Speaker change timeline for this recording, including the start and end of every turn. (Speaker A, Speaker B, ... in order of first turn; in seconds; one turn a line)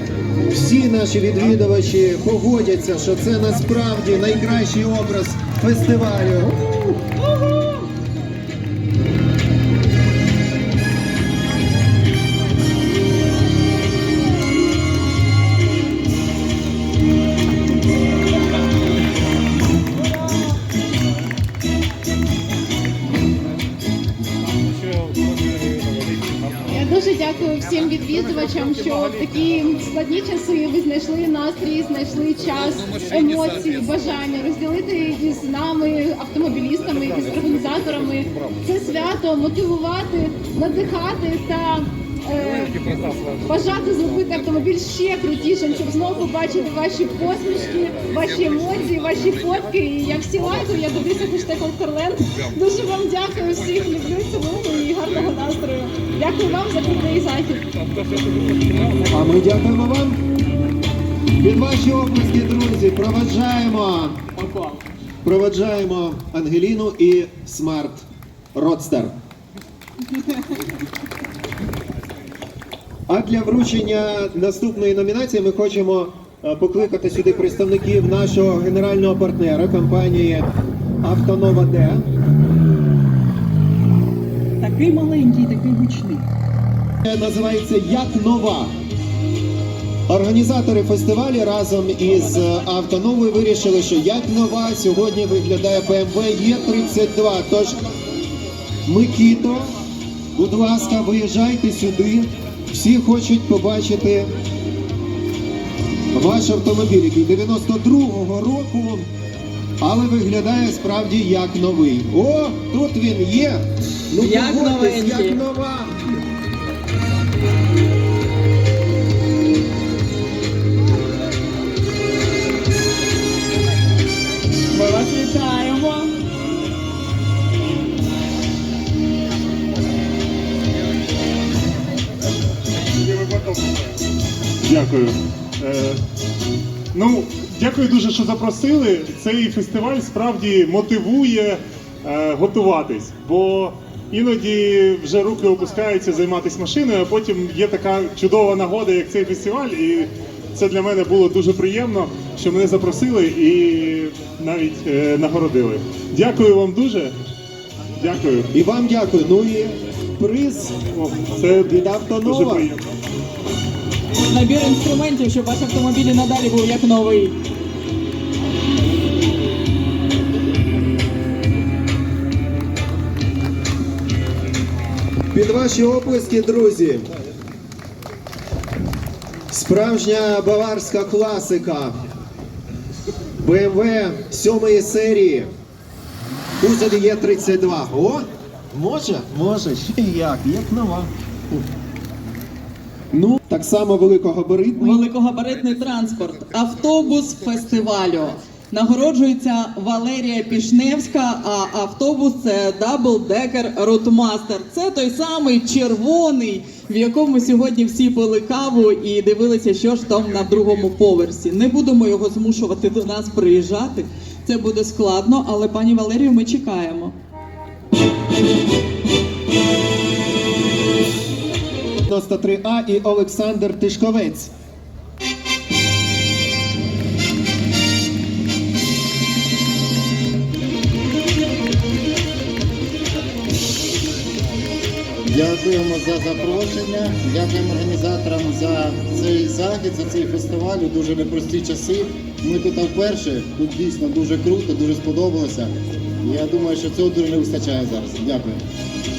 Speaker A: 0.5-6.9
Speaker B: 26.7-55.3
Speaker C: 55.1-56.0
Speaker B: 56.0-57.7
Speaker A: 59.1-60.2
Speaker A: 61.4-64.2
Speaker C: 64.3-64.8
Speaker A: 65.2-69.1
Speaker A: 73.1-80.5
Speaker A: 81.0-82.1
Speaker C: 84.6-86.3
Speaker A: 87.0-88.7
Speaker A: 90.1-97.8
Speaker A: 98.9-99.7
Speaker A: 100.4-104.3
Speaker A: 106.1-109.1
Speaker A: 109.8-115.9
Speaker C: 114.2-115.4
Speaker C: 124.7-126.1
Speaker D: 133.1-133.8
Speaker D: 134.7-136.0
Speaker D: 136.9-157.2
Speaker D: 158.0-158.5
Speaker A: 158.5-160.8
Speaker D: 161.0-161.7
Speaker A: 161.5-162.7
Speaker D: 162.2-162.8
Speaker C: 164.3-167.4
Speaker A: 175.3-177.1
Speaker A: 179.5-181.9
Speaker A: 183.4-185.5
Speaker A: 186.6-191.6
Speaker A: 193.1-195.0
Speaker C: 194.8-217.1
Speaker A: 222.1-224.5
Speaker E: 238.1-238.5
Speaker E: 239.4-239.9
Speaker E: 240.7-241.8
Speaker E: 242.6-244.2
Speaker E: 246.8-248.4